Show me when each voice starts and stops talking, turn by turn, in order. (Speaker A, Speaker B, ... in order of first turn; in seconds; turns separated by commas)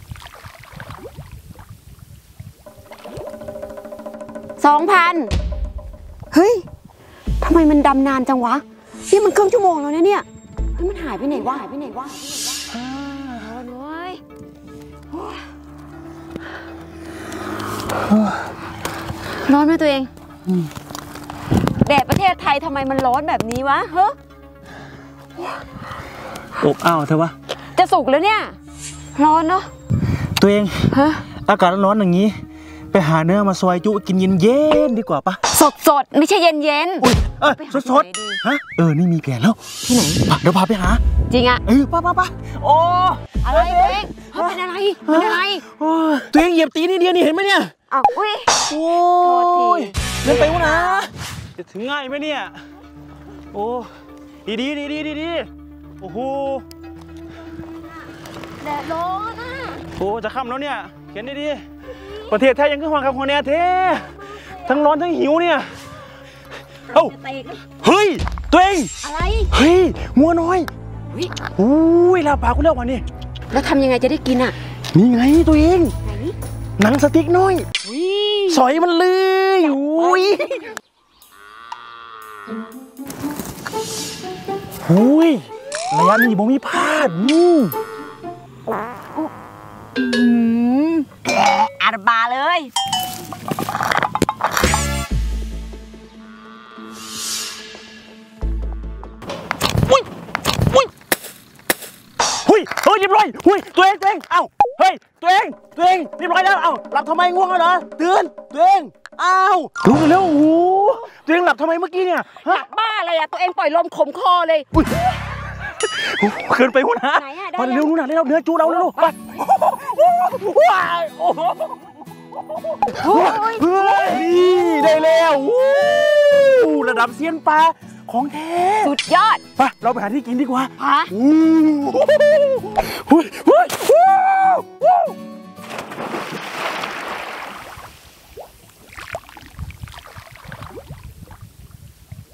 Speaker A: 4.6-5.3, Speaker A: 6.3-6.7, Speaker A: 7.4-12.6, Speaker B: 12.8-13.4, Speaker A: 13.3-14.2, Speaker A: 19.4-20.1, Speaker A: 21.8-24.1, Speaker B: 26.6-27.3, Speaker A: 27.7-28.6, Speaker A: 29.1-29.7, Speaker B: 30.4-32.4, Speaker A: 30.9-31.2, Speaker B: 32.9-35.4, Speaker A: 35.5-38.4, Speaker B: 37.0-39.6, Speaker A: 39.8-40.2, Speaker B: 40.2-41.0, Speaker A: 41.3-41.6, Speaker B: 41.6-47.7, Speaker A: 43.4-45.6, Speaker A: 47.9-48.6, Speaker B: 48.6-52.6, Speaker A: 49.2-51.1, Speaker B: 53.5-53.9, Speaker B: 54.5-55.5, Speaker B: 56.0-56.6, Speaker A: 58.6-59.9, Speaker B: 60.0-61.6, Speaker B: 62.2-65.8, Speaker A: 64.4-64.7, Speaker B: 66.9-67.2, Speaker A: 66.9-67.6, Speaker B: 67.8-68.9, Speaker A: 69.0-69.5, Speaker B: 69.5-70.7, Speaker B: 71.5-73.0, Speaker A: 73.5-74.5, Speaker B: 74.9-75.9, Speaker A: 76.0-76.3, Speaker B: 76.8-77.7, Speaker A: 77.8-78.6, Speaker B: 78.5-80.7, Speaker B: 84.8-87.8, Speaker A: 90.0-92.7, Speaker B: 102.4-112.6, Speaker A: 112.3-114.7, Speaker B: 114.8-115.0, Speaker B: 115.8-121.8, Speaker A: 117.1-117.9, Speaker A: 118.8-119.1, Speaker B: 122.8-128.9, Speaker A: 122.9-124.2, Speaker A: 128.8-129.4, Speaker B: 129.6-135.1, Speaker A: 130.8-131.1